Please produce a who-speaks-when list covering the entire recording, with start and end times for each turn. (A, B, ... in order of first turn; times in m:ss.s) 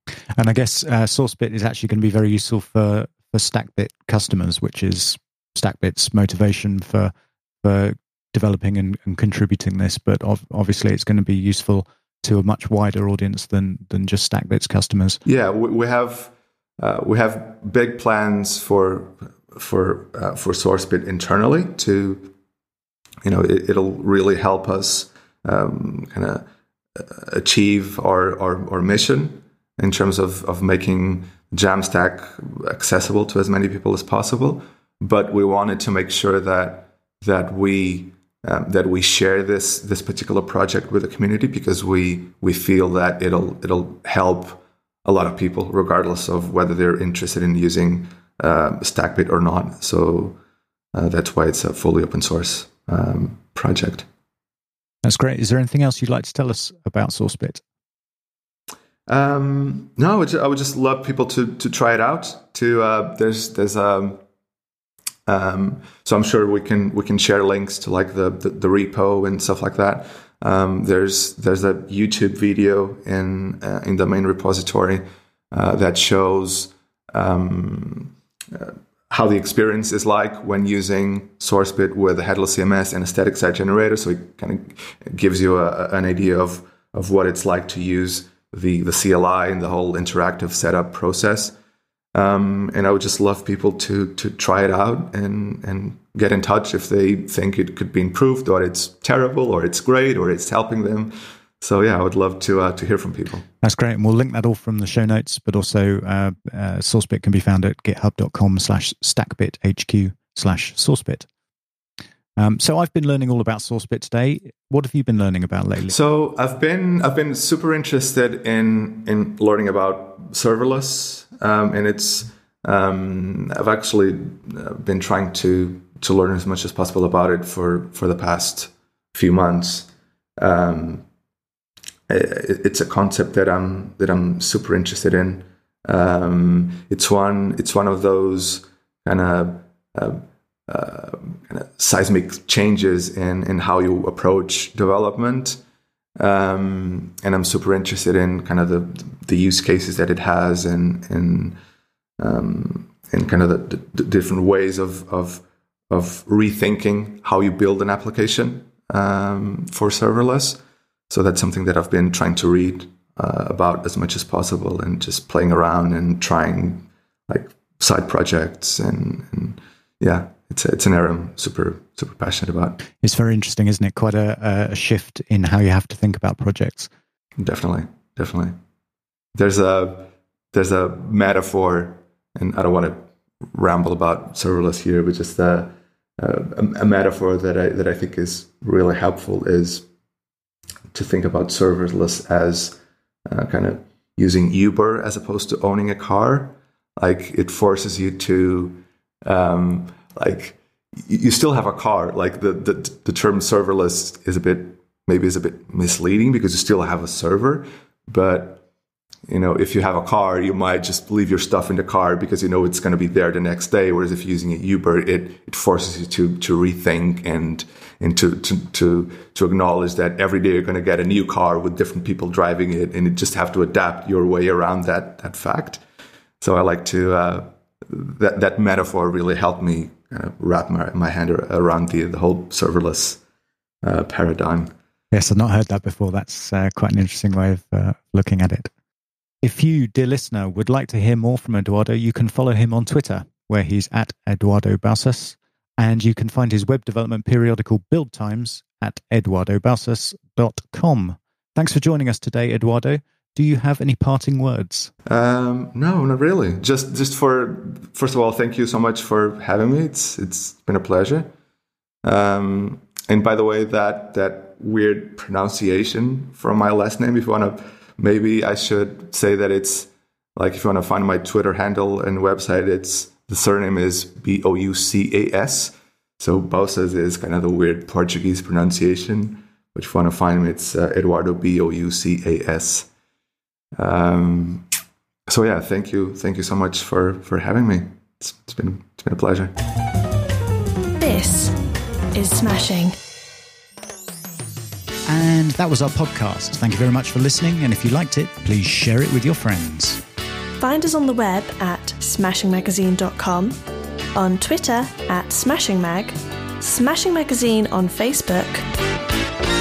0:00.4-0:15.2 A
0:15.2-0:22.3 B
0:23.2-0:50.4 B
0:50.9-0:54.0 B
0:55.0-0:57.6 A
0:59.1-1:04.2 B
1:05.2-1:31.6 B
1:32.1-1:43.4 B
1:43.6-1:51.3 A
1:52.4-1:56.0 A
1:55.9-2:11.0 B
2:12.1-2:25.6 B
2:26.2-2:31.6 B
2:32.2-2:52.8 B
2:53.0-2:56.9 A
2:57.4-2:58.5 B
2:59.3-3:09.9 B
3:10.9-3:28.6 B
3:29.3-3:45.8 B
3:46.4-3:53.2 B
3:53.8-3:54.7 B
3:55.1-3:58.7 A
3:59.4-4:14.9 A
4:15.0-4:21.3 B
4:22.0-4:42.9 B
4:43.8-4:44.6 B
4:45.3-4:49.5 B
4:51.0-4:51.6 C
4:52.1-4:53.0 C
4:55.1-5:00.0 A
5:00.6-5:03.6 C
5:04.1-5:08.6 C